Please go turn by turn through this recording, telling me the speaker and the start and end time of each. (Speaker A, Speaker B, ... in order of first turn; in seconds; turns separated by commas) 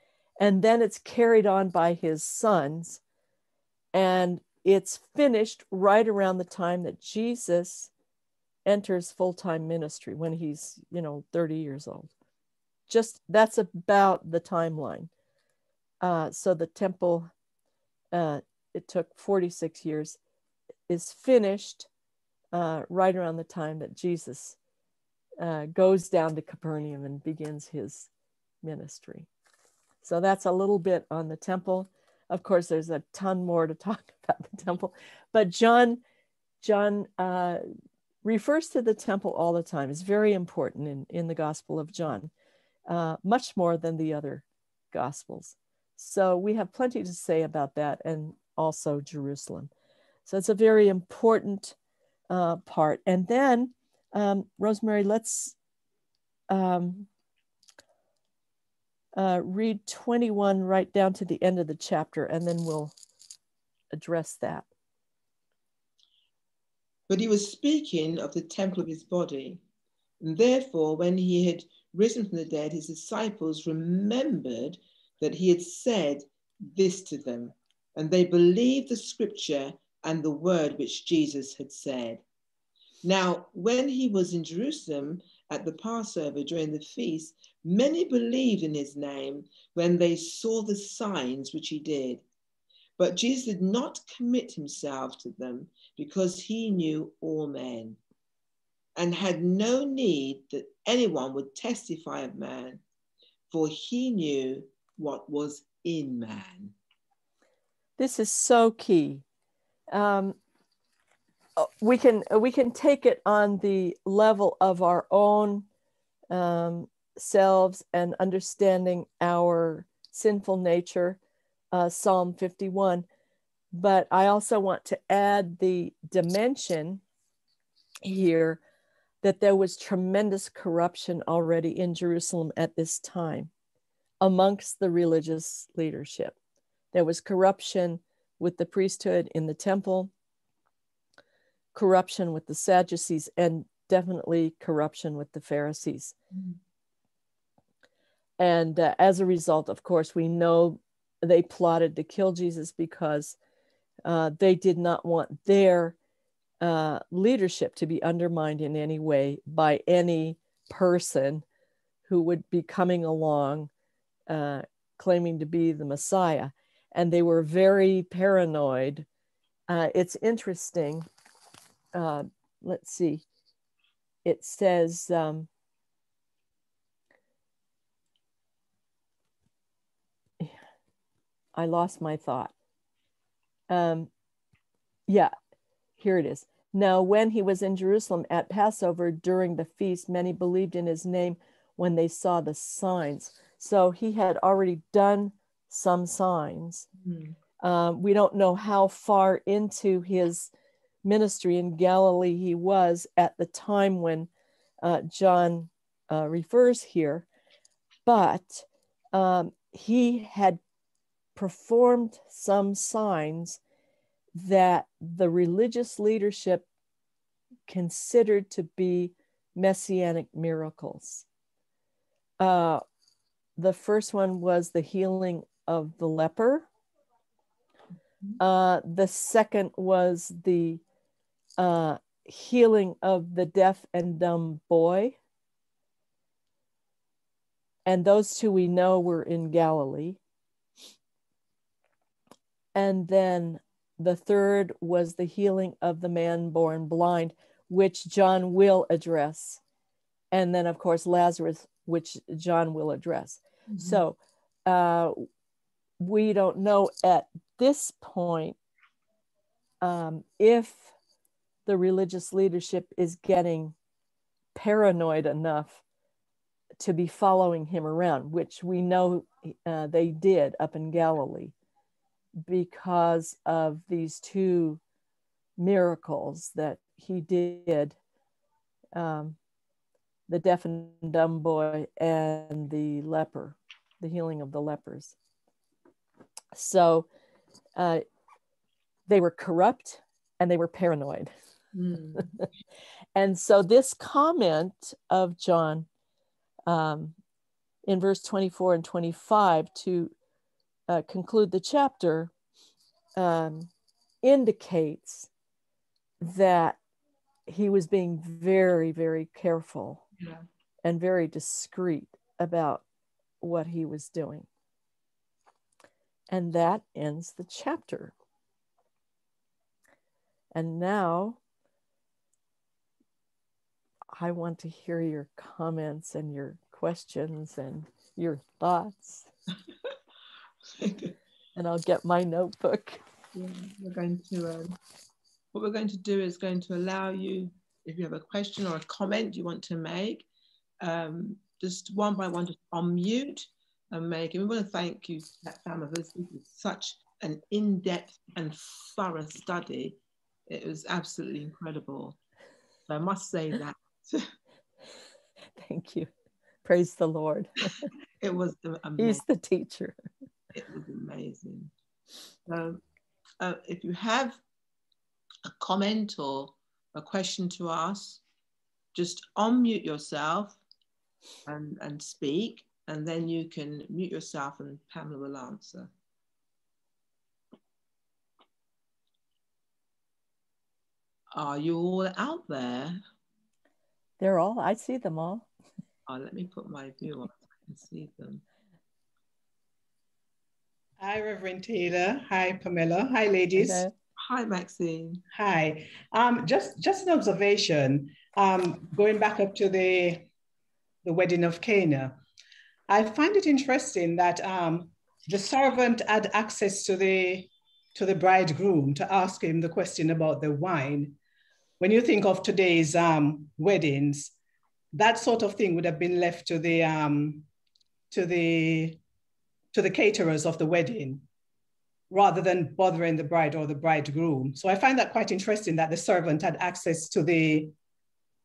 Speaker A: 0.4-3.0, Speaker A: 3.9-7.9, Speaker A: 8.6-12.1, Speaker A: 12.9-15.1, Speaker A: 16.0-17.3, Speaker A: 18.1-20.2, Speaker A: 20.9-21.9, Speaker A: 22.5-24.6, Speaker A: 25.4-28.1, Speaker A: 28.6-29.3, Speaker A: 30.0-36.0, Speaker A: 36.6-37.6, Speaker A: 38.2-42.3, Speaker A: 42.9-49.7, Speaker A: 50.2-51.8, Speaker A: 52.3-55.5, Speaker A: 56.5-57.1, Speaker A: 59.1-62.9, Speaker A: 63.9-64.7, Speaker B: 67.1-69.6, Speaker B: 70.2-82.2, Speaker B: 83.0-92.2, Speaker B: 93.0-98.0, Speaker B: 99.0-102.8, Speaker B: 103.5-106.7, Speaker A: 108.0-109.2, Speaker A: 109.9-110.4, Speaker A: 111.6-115.7, Speaker A: 116.3-121.2, Speaker A: 121.7-123.0, Speaker A: 123.7-127.0, Speaker A: 128.0-128.6, Speaker A: 129.2-133.5, Speaker A: 134.2-136.3, Speaker A: 136.9-140.1, Speaker A: 141.7-146.1, Speaker A: 148.4-153.3, Speaker A: 154.0-155.9, Speaker A: 156.6-161.4, Speaker A: 162.1-163.7, Speaker A: 164.3-169.1, Speaker A: 169.7-171.1, Speaker A: 171.9-173.2, Speaker A: 174.2-175.5, Speaker A: 181.5-182.5, Speaker A: 183.7-184.1, Speaker A: 185.1-185.3, Speaker A: 186.0-196.9, Speaker B: 197.0-197.3, Speaker A: 197.6-200.5, Speaker A: 201.0-204.3, Speaker A: 204.8-207.2, Speaker A: 208.1-210.6, Speaker A: 211.3-213.6, Speaker A: 214.3-216.7, Speaker A: 217.7-221.2, Speaker A: 222.4-222.8, Speaker A: 223.6-226.7, Speaker A: 228.4-230.8, Speaker A: 231.6-235.2, Speaker A: 237.8-240.2, Speaker A: 242.7-249.6, Speaker A: 250.3-255.2, Speaker B: 253.7-254.0, Speaker A: 256.0-258.6, Speaker A: 259.8-260.9, Speaker A: 261.6-263.7, Speaker A: 264.5-265.8, Speaker A: 266.8-271.5, Speaker A: 272.4-274.8, Speaker A: 275.6-278.0, Speaker A: 278.9-279.4, Speaker A: 280.3-285.1, Speaker A: 286.5-287.1, Speaker A: 287.8-288.0, Speaker A: 289.1-291.3, Speaker B: 291.7-292.4, Speaker A: 293.1-295.9, Speaker A: 296.7-297.1, Speaker A: 297.8-300.1, Speaker A: 300.9-302.3, Speaker A: 303.1-303.7, Speaker A: 304.2-305.3, Speaker A: 306.2-306.8, Speaker A: 307.5-310.0, Speaker A: 310.8-312.8, Speaker A: 313.4-314.5, Speaker A: 316.3-318.1, Speaker A: 320.5-321.4, Speaker A: 324.1-329.3, Speaker B: 330.7-331.1, Speaker A: 331.6-333.0, Speaker B: 333.3-334.8, Speaker B: 335.5-340.3, Speaker B: 340.8-352.2, Speaker B: 352.9-354.3, Speaker A: 355.6-356.1, Speaker A: 356.6-357.9, Speaker B: 358.2-359.2, Speaker A: 359.0-359.9, Speaker B: 360.5-361.7, Speaker B: 362.5-362.8, Speaker B: 363.4-364.4, Speaker B: 365.4-368.2, Speaker B: 368.9-370.6, Speaker B: 371.4-375.9, Speaker B: 381.3-383.0, Speaker A: 384.2-385.5, Speaker B: 386.1-388.4, Speaker C: 391.0-393.8, Speaker A: 393.6-393.9, Speaker B: 394.2-395.2, Speaker C: 395.3-400.3, Speaker C: 401.0-402.1, Speaker C: 402.9-411.2, Speaker C: 411.8-414.3, Speaker C: 414.9-417.5, Speaker C: 418.1-419.0, Speaker C: 419.7-421.2, Speaker C: 422.1-427.7